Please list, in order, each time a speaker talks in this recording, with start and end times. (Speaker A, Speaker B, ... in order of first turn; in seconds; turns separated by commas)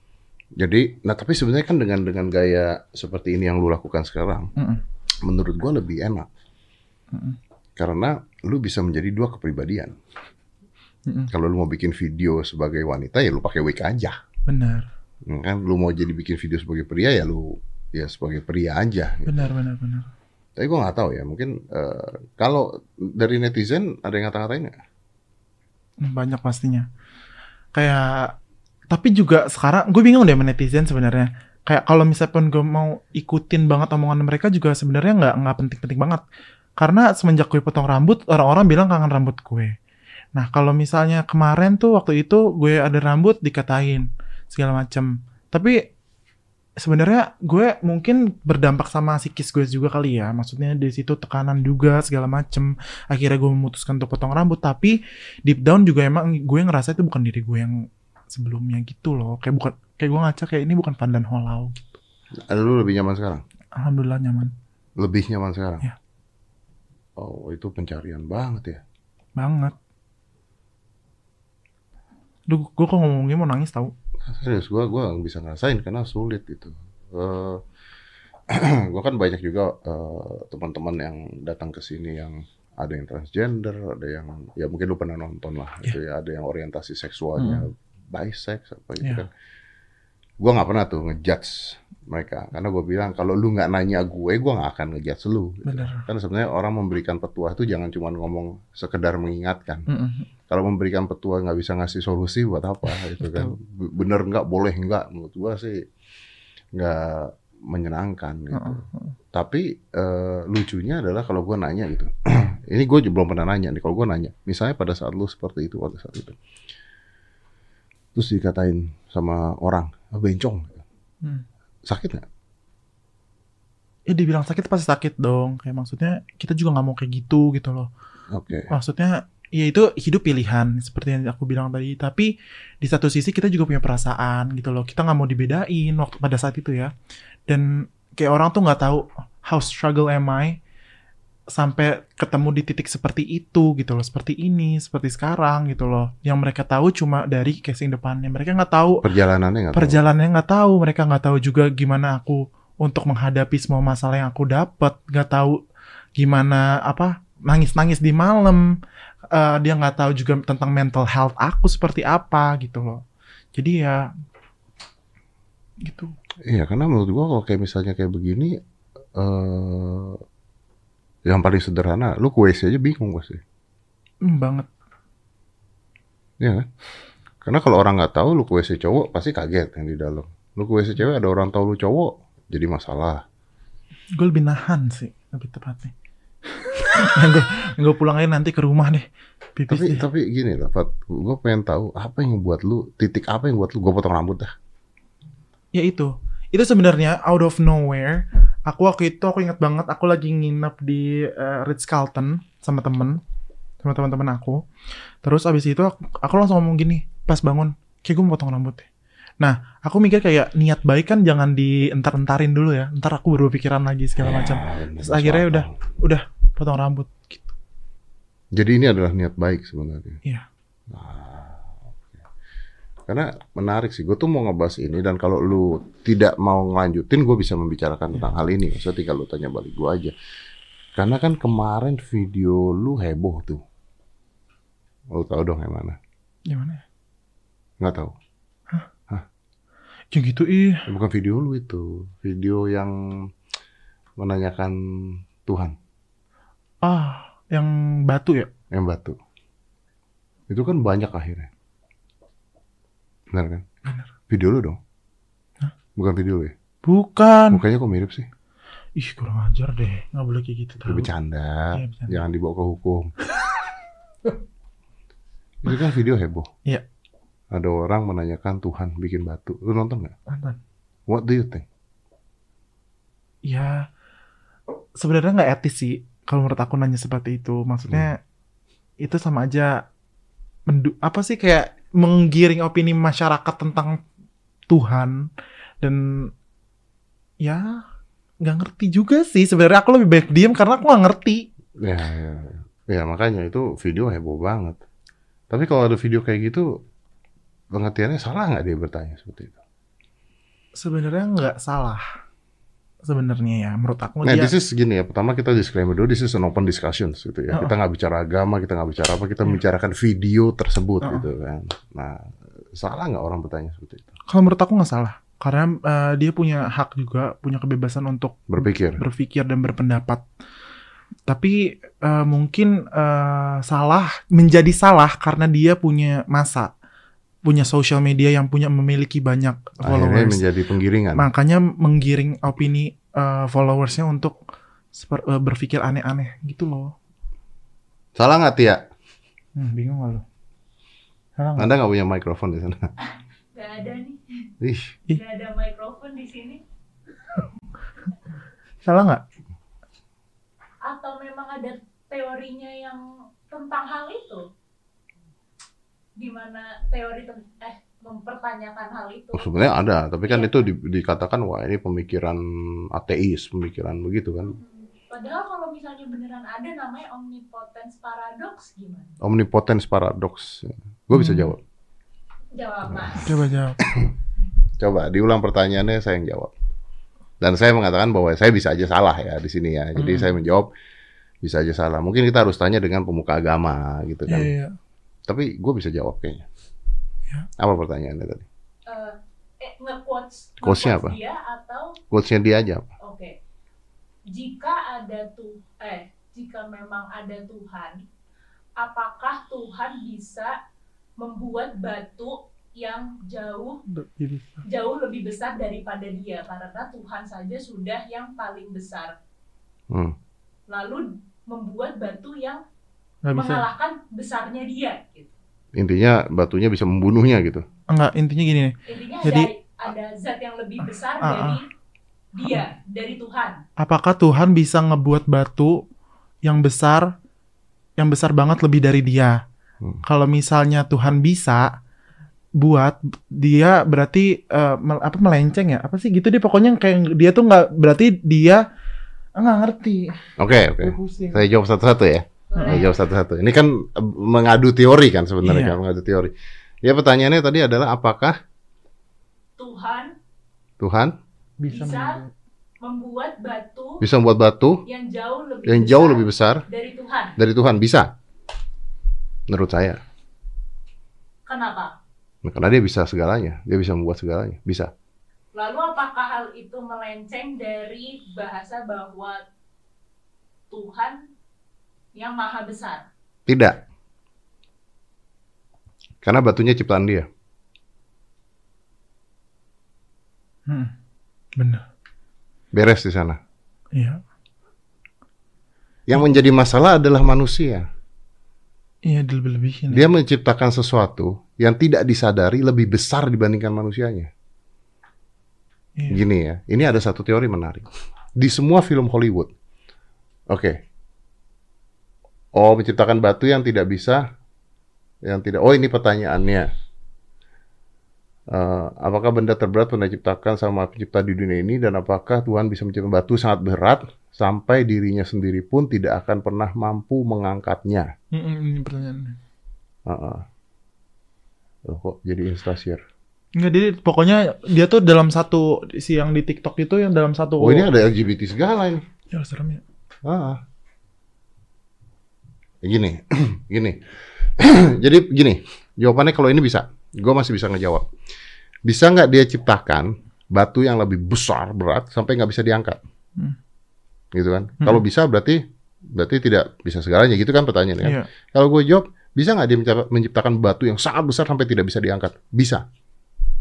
Speaker A: 0.6-4.5, Speaker B: 4.6-4.8, Speaker A: 5.2-6.3, Speaker B: 7.1-7.4, Speaker A: 7.8-9.9, Speaker A: 11.3-14.2, Speaker B: 14.5-14.9, Speaker A: 15.3-19.5, Speaker B: 19.2-20.1, Speaker A: 20.6-24.8, Speaker B: 26.0-26.9, Speaker B: 27.7-28.3, Speaker B: 28.9-36.2, Speaker B: 36.8-39.7, Speaker B: 40.3-45.8, Speaker B: 46.8-61.8, Speaker A: 62.5-63.4, Speaker B: 63.7-64.5, Speaker A: 65.0-65.9, Speaker A: 67.2-68.8, Speaker B: 69.4-69.7, Speaker B: 72.5-73.9, Speaker A: 74.2-77.6, Speaker A: 78.5-89.3, Speaker B: 87.4-87.7, Speaker A: 90.4-99.9, Speaker B: 95.6-96.0, Speaker B: 99.9-100.3, Speaker A: 100.5-105.8, Speaker B: 102.9-103.5, Speaker A: 106.7-116.4, Speaker B: 108.5-109.1, Speaker A: 118.1-120.8, Speaker A: 121.9-122.2, Speaker B: 124.1-127.9, Speaker A: 128.3-128.7, Speaker B: 128.7-136.9, Speaker B: 137.5-140.6, Speaker B: 141.5-149.0, Speaker A: 149.0-150.0, Speaker B: 149.7-155.6, Speaker B: 156.2-158.7, Speaker B: 159.3-163.0, Speaker B: 163.5-164.1, Speaker B: 165.8-166.1, Speaker A: 166.4-168.6, Speaker A: 169.2-170.2, Speaker A: 171.2-173.4, Speaker B: 174.2-174.7, Speaker A: 176.4-176.7, Speaker A: 177.4-183.2, Speaker B: 184.2-185.9, Speaker B: 186.5-190.0, Speaker A: 189.7-194.5, Speaker B: 195.7-203.2, Speaker B: 203.8-204.6, Speaker B: 205.2-208.9, Speaker B: 209.4-217.5, Speaker A: 214.2-215.7, Speaker A: 218.5-220.2, Speaker A: 220.9-221.7, Speaker A: 223.1-230.1, Speaker A: 230.9-233.6, Speaker A: 235.1-236.0, Speaker B: 236.5-236.8, Speaker A: 237.8-238.1, Speaker B: 240.1-240.8, Speaker A: 240.9-243.3, Speaker A: 244.2-245.7, Speaker B: 246.8-248.5, Speaker A: 248.7-249.2, Speaker A: 250.5-251.5, Speaker A: 253.3-253.6, Speaker A: 254.3-254.8, Speaker A: 255.9-256.5, Speaker B: 256.8-257.6, Speaker A: 257.5-258.3, Speaker B: 258.9-261.1, Speaker A: 260.8-263.1, Speaker B: 261.7-262.2, Speaker A: 265.6-266.5, Speaker A: 267.5-270.1, Speaker B: 270.3-270.6, Speaker A: 271.1-271.6, Speaker B: 273.4-273.9, Speaker B: 275.0-278.2, Speaker B: 279.0-279.8, Speaker B: 280.7-284.0, Speaker B: 284.7-285.3, Speaker B: 285.8-286.3, Speaker B: 287.4-287.8, Speaker B: 288.4-291.4, Speaker A: 291.8-294.8, Speaker A: 295.5-296.8, Speaker A: 297.7-299.6, Speaker B: 300.8-302.0, Speaker B: 303.0-304.5, Speaker A: 304.2-312.2, Speaker A: 312.7-314.1, Speaker B: 314.3-320.2, Speaker A: 318.5-319.0, Speaker B: 321.3-326.7, Speaker B: 327.4-330.4, Speaker A: 329.8-331.2, Speaker B: 331.1-334.4, Speaker B: 334.9-336.9, Speaker A: 338.2-338.8, Speaker B: 339.6-340.2, Speaker B: 341.4-341.7, Speaker A: 341.6-342.9, Speaker C: 343.0-344.5, Speaker A: 344.6-344.9, Speaker C: 345.1-346.6, Speaker B: 348.8-349.2, Speaker C: 350.8-354.4, Speaker C: 356.2-359.6, Speaker A: 359.3-364.5, Speaker C: 360.2-360.7, Speaker C: 364.4-369.1, Speaker A: 369.2-371.6, Speaker B: 371.1-371.5, Speaker C: 372.5-373.4, Speaker B: 373.2-373.8, Speaker A: 373.8-374.1, Speaker A: 374.8-376.5, Speaker A: 377.4-380.7, Speaker B: 380.0-380.3, Speaker A: 381.4-384.5, Speaker B: 384.3-384.8, Speaker A: 385.3-386.5, Speaker A: 387.6-388.4, Speaker C: 388.9-392.0, Speaker A: 390.6-391.2, Speaker A: 392.1-392.9, Speaker C: 393.0-393.3, Speaker C: 394.3-398.0, Speaker C: 398.8-400.5, Speaker C: 401.2-403.8, Speaker B: 403.9-404.6, Speaker C: 404.6-409.1, Speaker C: 410.7-412.6, Speaker B: 413.2-413.7, Speaker C: 413.3-415.3, Speaker A: 415.8-417.6, Speaker B: 417.9-419.5, Speaker C: 418.9-421.6, Speaker B: 421.2-421.6, Speaker C: 422.3-423.6, Speaker B: 423.8-425.8, Speaker B: 426.4-427.1, Speaker B: 428.0-429.4, Speaker B: 430.0-431.7, Speaker B: 432.6-438.6, Speaker B: 439.4-440.2, Speaker A: 440.4-448.4, Speaker B: 440.8-441.4, Speaker C: 442.5-442.9, Speaker B: 442.6-442.8, Speaker B: 445.4-445.8, Speaker C: 449.6-450.1, Speaker A: 450.8-451.1, Speaker B: 451.6-452.3, Speaker C: 451.7-452.2, Speaker C: 452.8-454.0, Speaker A: 454.0-454.8, Speaker C: 454.9-457.4, Speaker A: 455.6-456.6, Speaker A: 457.4-458.1, Speaker A: 459.5-460.0, Speaker C: 461.5-461.9, Speaker A: 462.4-464.9, Speaker C: 465.5-469.4, Speaker C: 470.7-471.2, Speaker C: 472.1-473.0, Speaker A: 473.5-473.8, Speaker A: 476.2-477.3, Speaker B: 480.7-480.9, Speaker B: 481.6-481.8, Speaker A: 482.7-483.4, Speaker B: 483.9-484.2, Speaker A: 486.1-487.9, Speaker B: 489.0-490.1, Speaker A: 489.9-494.3, Speaker B: 495.9-496.2, Speaker A: 496.1-499.5, Speaker A: 500.5-500.8, Speaker A: 502.5-504.2, Speaker A: 505.2-506.7, Speaker A: 508.5-518.1, Speaker B: 518.3-519.4, Speaker A: 520.1-520.4, Speaker A: 521.9-523.0, Speaker B: 523.5-527.9, Speaker A: 527.6-529.0, Speaker B: 529.3-529.8, Speaker A: 530.2-530.6, Speaker A: 532.8-534.0, Speaker A: 534.6-538.0, Speaker A: 538.9-543.0, Speaker A: 544.3-545.6, Speaker A: 546.1-552.8